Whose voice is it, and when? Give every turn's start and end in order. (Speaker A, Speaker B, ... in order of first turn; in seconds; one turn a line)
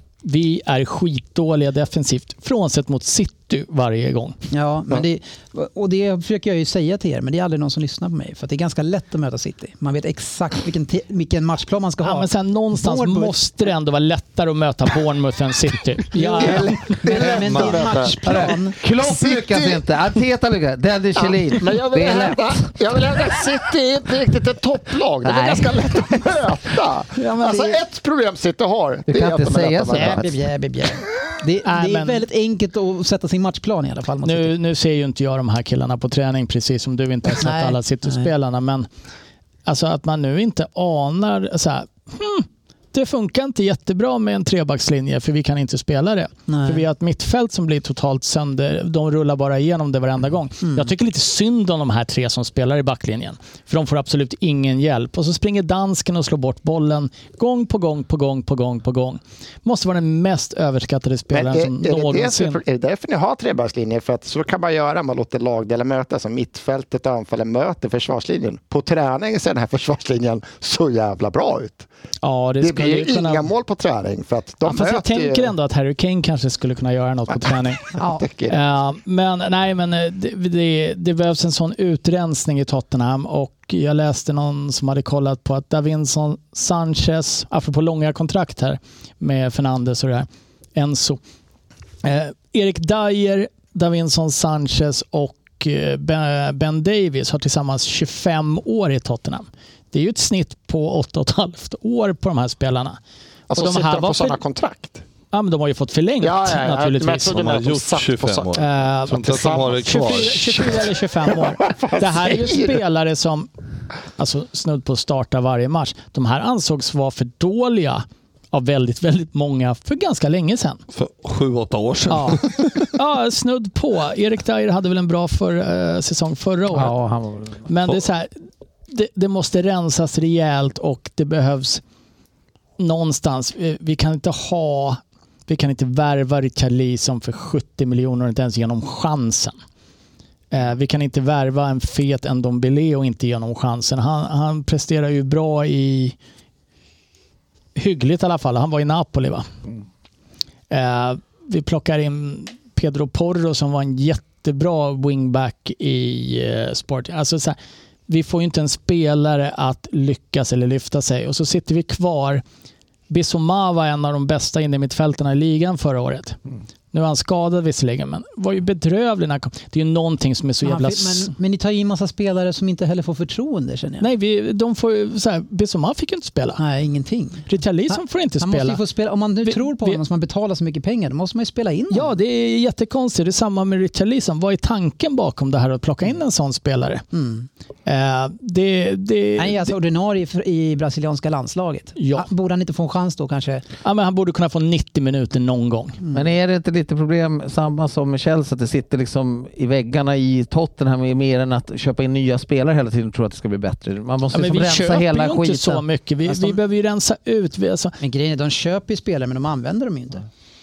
Speaker A: 0.2-4.4
Speaker B: 4.5-13.4
Speaker A: 12.0-17.0
Speaker B: 16.1-18.8
Speaker C: 16.4-19.8
Speaker D: 17.2-17.9
Speaker E: 18.3-22.7
Speaker C: 21.2-30.2
Speaker E: 25.2-26.2
Speaker B: 27.1-27.8
Speaker E: 29.1-30.3
Speaker B: 29.9-34.5
Speaker A: 31.6-32.2
Speaker A: 34.2-38.9
Speaker B: 37.4-38.3
Speaker A: 39.6-62.6
Speaker B: 46.5-46.8
Speaker B: 50.6-50.9
Speaker C: 61.3-71.9
Speaker A: 72.2-73.5
Speaker C: 72.6-75.5
Speaker A: 74.6-78.0
Speaker C: 77.4-78.6
Speaker A: 78.5-91.2
Speaker A: 92.0-103.0
Speaker C: 103.5-105.0
Speaker A: 103.5-104.4
Speaker A: 105.3-107.4
Speaker C: 106.2-108.5
Speaker D: 107.3-110.5
Speaker A: 108.5-113.5
Speaker C: 109.2-112.8
Speaker A: 114.2-120.8
Speaker D: 120.9-122.9
Speaker A: 122.1-126.9
Speaker E: 126.7-127.7
Speaker A: 127.7-128.4
Speaker A: 128.9-131.8
Speaker A: 132.8-139.6
Speaker A: 140.5-146.2
Speaker A: 147.8-149.5
Speaker A: 150.7-157.6
Speaker A: 158.1-162.4
Speaker A: 163.1-166.4
Speaker A: 166.9-171.3
Speaker B: 170.6-174.1
Speaker A: 174.0-176.6
Speaker B: 176.6-182.1
Speaker A: 177.5-178.8
Speaker A: 179.4-180.0
Speaker A: 181.9-187.0
Speaker B: 187.1-187.5
Speaker A: 187.8-189.7
Speaker B: 189.4-193.6
Speaker A: 191.9-192.3
Speaker A: 193.8-196.0
Speaker B: 196.0-196.3
Speaker E: 196.1-205.8
Speaker A: 204.3-207.9
Speaker B: 206.3-206.6
Speaker B: 208.0-210.2